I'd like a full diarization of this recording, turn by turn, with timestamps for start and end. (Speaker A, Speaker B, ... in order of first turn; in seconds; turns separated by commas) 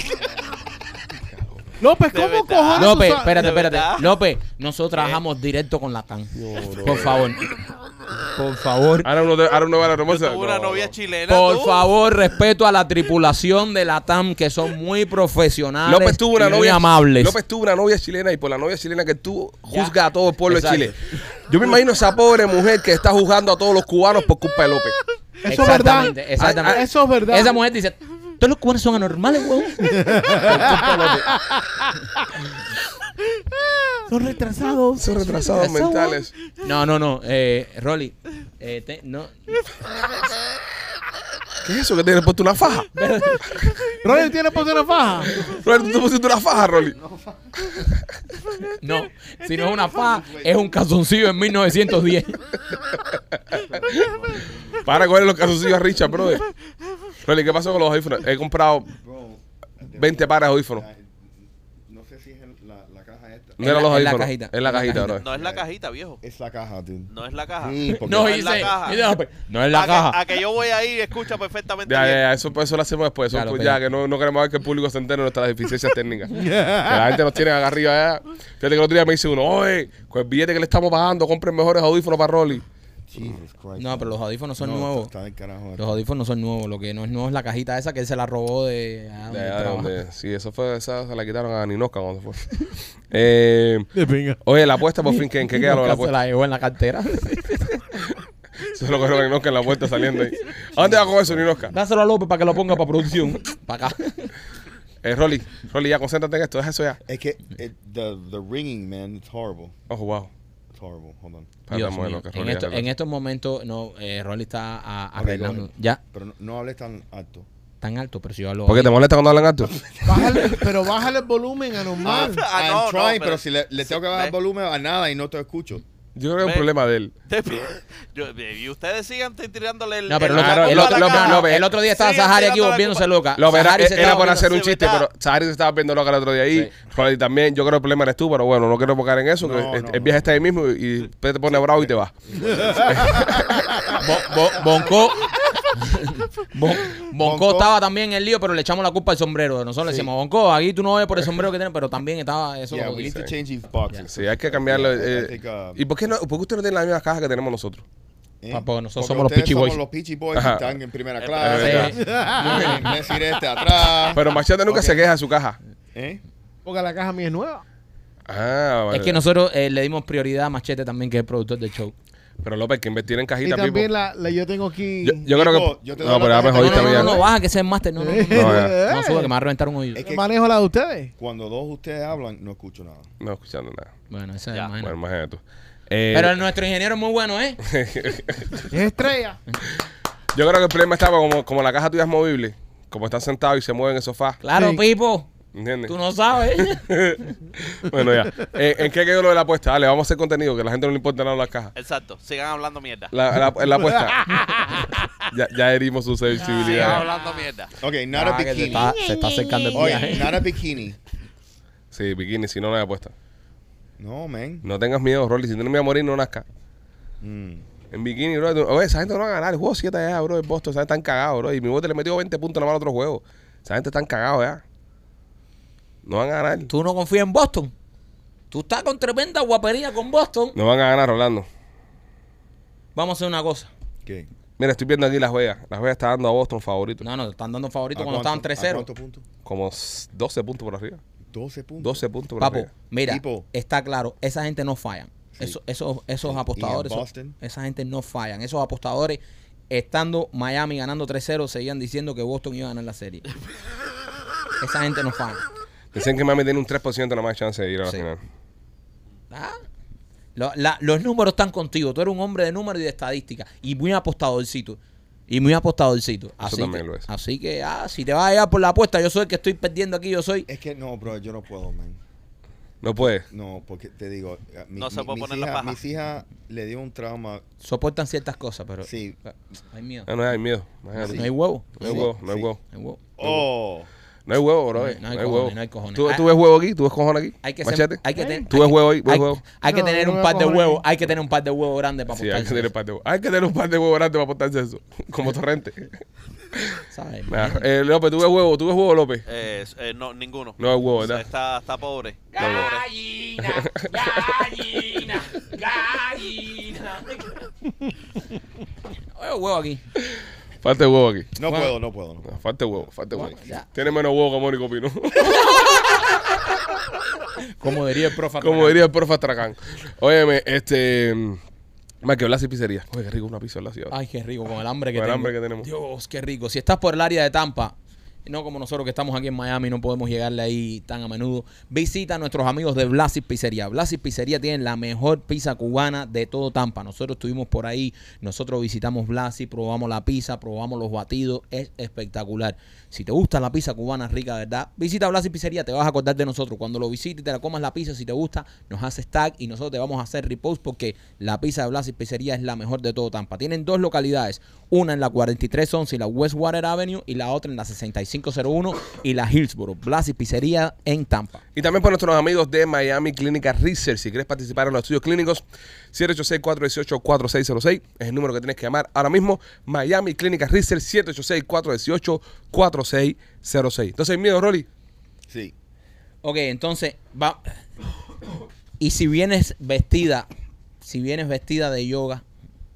Speaker A: 1.8-3.5, Speaker B: 2.1-4.1, Speaker C: 2.8-7.5, Speaker B: 4.9-5.2, Speaker D: 6.3-7.2, Speaker E: 6.9-7.2, Speaker C: 8.3-9.1, Speaker E: 9.0-10.9, Speaker B: 10.1-11.9, Speaker C: 11.3-17.4, Speaker E: 15.9-25.0, Speaker C: 19.7-19.9, Speaker C: 20.5-20.9, Speaker A: 25.4-27.6, Speaker C: 25.5-31.3, Speaker E: 26.4-26.8, Speaker A: 29.9-30.8, Speaker E: 30.5-31.0, Speaker A: 34.1-35.6, Speaker E: 35.0-36.3, Speaker C: 35.6-39.6, Speaker E: 41.6-42.9, Speaker C: 42.9-43.7, Speaker A: 44.0-45.5, Speaker E: 45.3-47.0, Speaker D: 46.9-47.7, Speaker C: 48.8-52.4, Speaker D: 49.8-50.8, Speaker D: 53.5-54.9, Speaker E: 54.8-56.5, Speaker E: 57.2-58.9, Speaker D: 58.9-63.6, Speaker E: 60.0-60.9, Speaker E: 63.6-65.3, Speaker C: 63.6-65.2, Speaker B: 65.2-66.2, Speaker D: 65.3-65.7, Speaker D: 66.2-68.6, Speaker B: 67.1-69.0, Speaker C: 67.9-70.2, Speaker B: 69.7-72.2, Speaker E: 71.9-82.7, Speaker C: 73.3-73.8, Speaker A: 76.3-77.2, Speaker D: 83.1-86.0, Speaker C: 83.8-85.1, Speaker C: 85.8-89.9, Speaker E: 89.3-93.9, Speaker A: 94.0-94.4, Speaker E: 94.4-96.1, Speaker C: 95.1-97.8, Speaker E: 98.7-101.8, Speaker D: 100.8-101.8, Speaker C: 101.7-104.3, Speaker E: 105.0-107.0, Speaker D: 107.1-109.8, Speaker E: 109.9-110.3, Speaker D: 110.7-111.5, Speaker E: 111.7-112.9, Speaker C: 111.7-116.0, Speaker D: 115.2-117.5, Speaker C: 117.8-118.9, Speaker E: 118.7-119.8, Speaker D: 119.8-120.5, Speaker A: 120.0-122.4, Speaker D: 122.0-125.8, Speaker B: 122.0-124.3, Speaker E: 126.2-127.1, Speaker B: 126.4-126.7, Speaker B: 127.3-133.1, Speaker C: 130.1-134.4, Speaker E: 130.3-131.7, Speaker E: 133.4-142.1, Speaker B: 133.9-135.1, Speaker D: 139.4-140.3, Speaker D: 141.5-144.0, Speaker E: 142.8-143.7, Speaker C: 143.9-153.2, Speaker D: 147.2-147.7, Speaker D: 149.8-150.1, Speaker D: 152.7-155.8, Speaker E: 154.1-157.8, Speaker D: 158.4-165.0, Speaker C: 158.5-159.8, Speaker E: 160.3-160.8, Speaker B: 161.2-161.6, Speaker E: 161.3-162.0, Speaker C: 161.4-162.9, Speaker A: 162.0-163.0, Speaker E: 164.1-165.6, Speaker D: 165.9-166.2, Speaker A: 166.7-167.6, Speaker E: 168.3-169.2, Speaker C: 168.9-171.9, Speaker E: 172.4-173.9, Speaker A: 173.4-175.2, Speaker E: 175.0-177.2, Speaker D: 175.2-177.2, Speaker C: 176.6-180.1, Speaker A: 178.0-179.3, Speaker E: 178.3-178.8, Speaker D: 179.9-180.3, Speaker A: 180.0-181.1, Speaker D: 181.2-183.1, Speaker E: 183.2-183.9, Speaker C: 184.1-184.9, Speaker E: 184.8-186.4, Speaker C: 186.1-187.6, Speaker E: 187.7-188.6, Speaker A: 188.7-189.4, Speaker E: 190.3-194.4, Speaker C: 194.4-195.3, Speaker A: 194.6-194.8, Speaker E: 195.5-195.9, Speaker C: 195.9-196.9, Speaker E: 196.6-201.7, Speaker B: 201.8-203.1, Speaker E: 203.1-204.3, Speaker A: 204.1-204.9, Speaker E: 205.3-207.1, Speaker B: 206.5-207.7, Speaker C: 206.8-207.0, Speaker D: 207.8-208.9, Speaker C: 208.1-210.4, Speaker A: 208.7-210.4, Speaker D: 209.7-211.0, Speaker E: 211.9-213.1, Speaker D: 214.0-214.7, Speaker E: 214.6-216.4, Speaker D: 217.2-217.7, Speaker E: 217.9-224.6, Speaker E: 226.1-226.7, Speaker C: 226.7-227.7, Speaker C: 228.5-230.6, Speaker E: 230.6-231.5, Speaker C: 232.9-233.7, Speaker E: 234.6-237.1, Speaker C: 237.0-238.9, Speaker D: 237.9-239.2, Speaker E: 239.4-241.0, Speaker D: 241.3-242.0, Speaker E: 241.8-242.7, Speaker C: 242.4-249.2, Speaker D: 243.1-243.5, Speaker D: 245.3-245.6, Speaker D: 246.2-247.4, Speaker C: 249.7-253.3, Speaker C: 254.6-255.4, Speaker E: 255.9-258.2, Speaker C: 259.3-259.6, Speaker C: 260.4-270.5, Speaker E: 266.4-267.1, Speaker D: 270.5-272.0, Speaker E: 272.8-273.2, Speaker D: 273.0-277.4, Speaker B: 274.8-275.8, Speaker C: 277.6-280.1, Speaker D: 278.8-279.2, Speaker E: 280.1-282.6, Speaker D: 281.0-282.5, Speaker C: 281.1-282.1, Speaker C: 282.7-283.0, Speaker D: 283.2-283.9, Speaker E: 284.3-289.4, Speaker C: 284.7-286.3, Speaker C: 287.4-292.7, Speaker A: 289.7-290.8, Speaker E: 292.1-295.9, Speaker C: 296.9-297.6, Speaker E: 297.3-299.3, Speaker B: 299.3-302.9, Speaker E: 300.6-301.2, Speaker C: 302.3-307.5, Speaker E: 302.4-302.7, Speaker E: 303.5-304.5, Speaker C: 309.2-309.8, Speaker E: 310.6-311.4, Speaker D: 311.4-312.3, Speaker C: 311.5-311.7, Speaker E: 312.2-316.0, Speaker C: 313.1-313.7, Speaker C: 315.2-315.9, Speaker C: 317.6-318.8, Speaker E: 318.4-321.4, Speaker E: 322.0-323.9, Speaker C: 323.9-327.8, Speaker E: 324.9-325.7, Speaker C: 328.3-361.4, Speaker E: 361.6-374.7, Speaker D: 375.3-375.5, Speaker C: 376.2-377.6, Speaker C: 378.8-380.3, Speaker C: 380.8-382.2